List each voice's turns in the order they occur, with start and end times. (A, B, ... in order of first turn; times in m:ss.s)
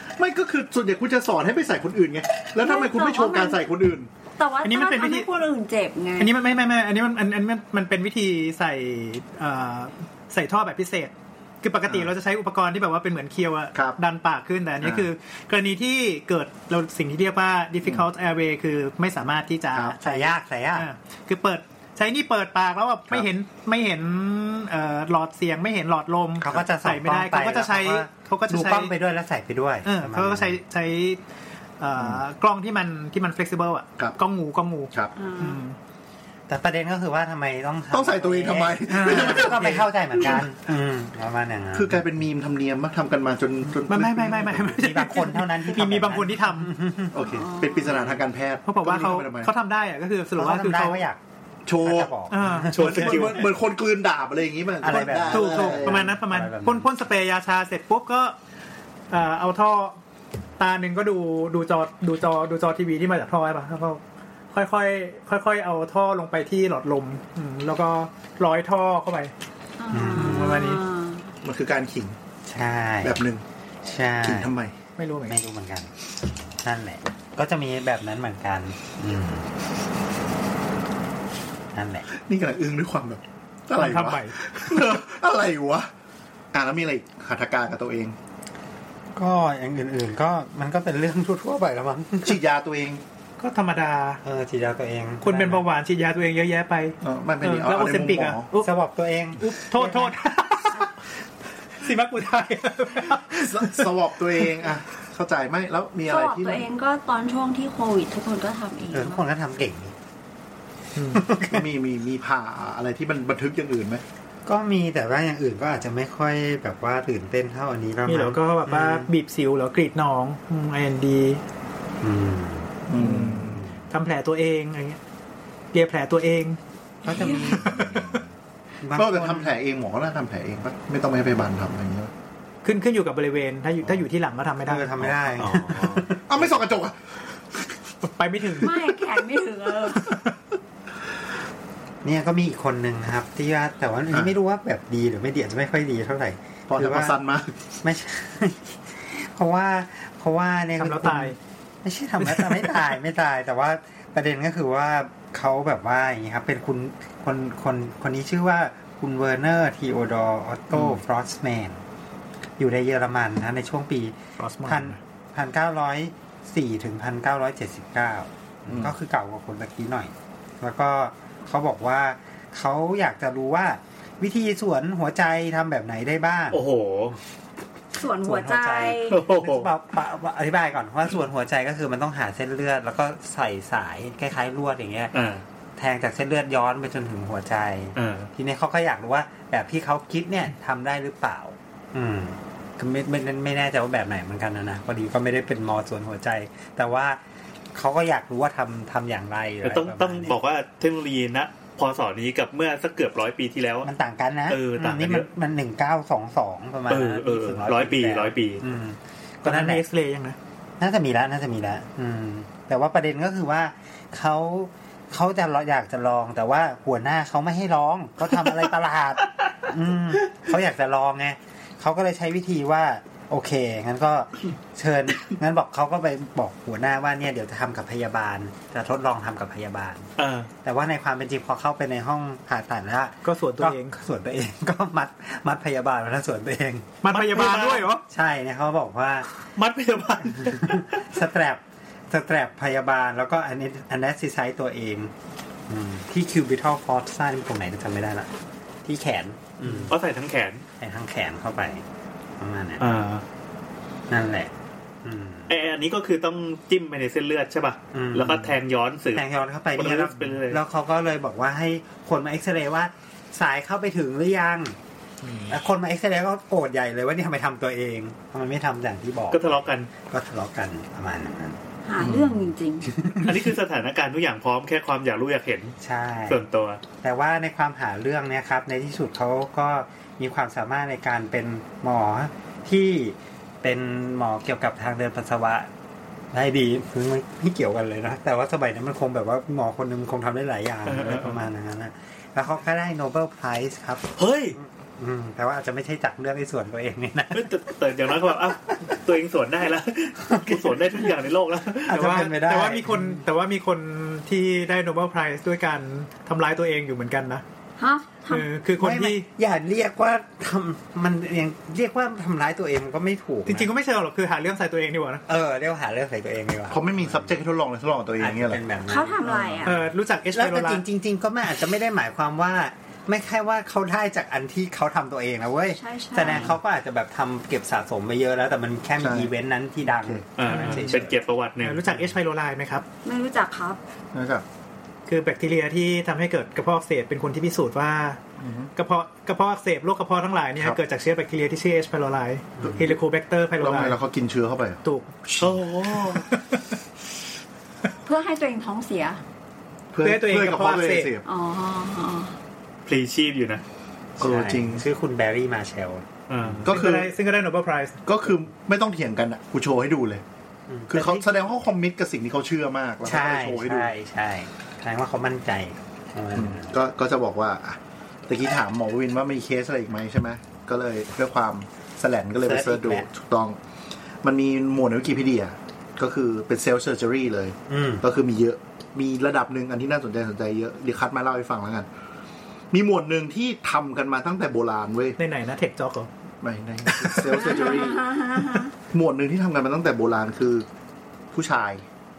0:00.2-0:04.1 A
0:02.6-0:03.6 B
0:04.4-0:06.3 B
0:04.6-0:05.3 C
0:06.2-0:28.9 C
0:13.7-0:14.0 A
0:14.8-0:15.1 A
0:20.0-0:20.9 D
0:26.4-0:30.6 D
0:29.8-0:31.2 C
0:31.8-0:35.8 C
0:32.0-0:32.2 A
0:35.1-0:35.6 B
0:36.5-0:42.0 D
0:37.9-0:40.4 A
0:38.9-0:40.3 C
0:41.7-0:44.8 A
0:43.8-0:46.7 C
0:44.6-0:47.2 D
0:47.1-0:49.5 A
0:47.2-0:48.0 B
0:47.8-0:48.2 D
0:48.6-0:51.0 C
0:50.3-0:51.2 D
0:51.7-0:52.1 A
0:51.8-0:53.2 D
0:52.3-0:53.3 C
0:52.6-0:56.1 A
0:52.7-0:53.5 E
0:54.8-0:56.9 D
0:54.8-0:58.3 C
0:59.1-1:00.0 C
1:00.6-1:09.3 C
1:09.8-1:11.3 B
1:09.9-1:10.6 D
1:10.1-1:10.8 C
1:11.4-1:12.2 A
1:12.4-1:13.2 D
1:13.0-1:13.4 A
1:13.8-1:14.5 D
1:14.2-1:14.7 A
1:15.0-1:15.4 C
1:15.3-1:15.9 D
1:16.6-1:19.5 D
1:21.7-1:22.1 D
1:22.2-1:25.9 A
1:23.7-1:24.4 C
1:26.5-1:28.2 A
1:29.1-1:32.4 D
1:32.2-1:33.0 A
1:33.4-1:34.2 C
1:34.2-1:35.6 D
1:35.2-1:38.7 C
1:37.0-1:38.5 A
1:38.6-1:40.2 D
1:39.4-1:40.9 C
1:41.7-1:44.5 C
1:43.1-1:46.7 A
1:46.1-1:49.2 B
1:48.9-1:49.9 D
1:51.0-1:51.2 C
1:51.1-1:51.7 D
1:51.4-1:54.0 A
1:54.4-1:59.1 D
1:58.0-2:01.4 C
2:02.0-2:03.7 D
2:02.9-2:03.6 A
2:02.9-2:05.0 C
2:05.7-2:06.6 C
2:07.0-2:07.8 D
2:07.1-2:08.2 A
2:07.2-2:08.2 C
2:08.8-2:09.5 D
2:08.9-2:12.1 A
2:12.6-2:15.1 C
2:14.6-2:16.8 D
2:15.4-2:16.1 E
2:16.3-2:17.0 A
2:18.0-2:19.0 C
2:18.6-2:20.1 B
2:20.0-2:20.3 C
2:22.0-2:27.2 D
2:26.7-2:27.5 A
2:27.8-2:41.8 D
2:30.8-2:31.4 C
2:32.2-2:32.7 C
2:42.6-2:56.6 D
2:44.4-2:45.0 C
2:48.7-2:48.9 A
2:56.5-2:57.2 E
2:57.9-2:59.2 B
2:58.2-3:05.1 D
2:59.0-2:59.7 E
3:05.1-3:05.4 E
3:05.8-3:17.2 D
3:08.0-3:08.3 E
3:17.7-3:20.3 D
3:19.6-3:23.9 E
3:23.8-3:29.8 D
3:24.5-3:25.3 E
3:26.9-3:28.6 E
3:29.4-3:30.4 C
3:30.8-3:50.1 D
3:50.2-3:50.5 E
3:50.6-3:56.9 D
3:53.2-3:54.0 C
3:57.0-3:58.0 C
3:57.1-3:57.9 E
3:58.1-3:59.3 D
3:59.5-4:01.0 E
4:00.3-4:05.1 D
4:05.7-4:08.3 D
4:08.8-4:09.9 D
4:09.6-4:10.6 E
4:10.8-4:11.8 D
4:12.4-4:12.8 D
4:12.8-4:13.2 E
4:14.1-4:14.5 D
4:15.0-4:15.5 D
4:15.5-4:20.6 E
4:17.9-4:18.6 D
4:19.1-4:24.8 D
4:25.5-4:31.6 D
4:29.3-4:29.9 E
4:31.8-4:32.9 B
4:32.0-4:32.5 A
4:32.8-4:33.4 D
4:33.2-4:35.8 E
4:35.8-4:36.4 D
4:36.3-4:36.8 E
4:37.0-4:45.7 D
4:46.3-4:57.5 D
4:50.9-4:51.4 E
4:54.2-4:54.6 E
4:57.3-5:02.3 E
5:00.2-5:01.1 D
5:01.9-5:03.2 D
5:01.9-5:07.4 C
5:07.8-5:08.5 B
5:08.3-5:09.3 C
5:08.8-5:13.7 D
5:13.4-5:15.2 C
5:15.3-5:17.4 D
5:16.7-5:18.6 A
5:18.2-5:31.2 D
5:18.9-5:19.7 B
5:19.2-5:19.7 A
5:19.6-5:20.8 C
5:25.7-5:26.5 B
5:29.0-5:29.3 A
5:29.9-5:30.2 A
5:30.4-5:31.9 E
5:30.4-5:31.0 C
5:31.6-5:32.8 C
5:33.0-5:33.8 B
5:34.1-5:34.4 A
5:35.1-5:38.2 C
5:38.4-5:38.7 A
5:38.7-5:44.0 C
5:42.6-5:42.9 D
5:42.6-5:42.9 A
5:43.6-5:46.2 A
5:44.8-5:45.1 C
5:45.4-5:46.3 E
5:46.3-5:46.6 C
5:48.0-5:49.2 B
5:49.9-5:51.2 A
5:50.0-5:51.1 C
5:51.2-5:52.3 B
5:52.8-5:53.6 E
5:54.2-5:54.8 A
5:54.2-5:56.7 D
5:56.3-5:56.7 E
5:56.6-5:57.1 A
5:56.7-5:58.0 C
5:58.0-6:00.2 A
6:00.7-6:01.3 D
6:00.9-6:03.9 A
6:03.0-6:06.7 D
6:06.3-6:13.6 A
6:12.4-6:13.1 D
6:14.2-6:21.9 A
6:17.7-6:18.0 D
6:22.7-6:25.2 A
6:25.2-6:26.1 C
6:26.4-6:28.2 A
6:26.9-6:27.6 C
6:27.3-6:28.7 B
6:28.9-6:30.6 A
6:31.3-6:31.8 A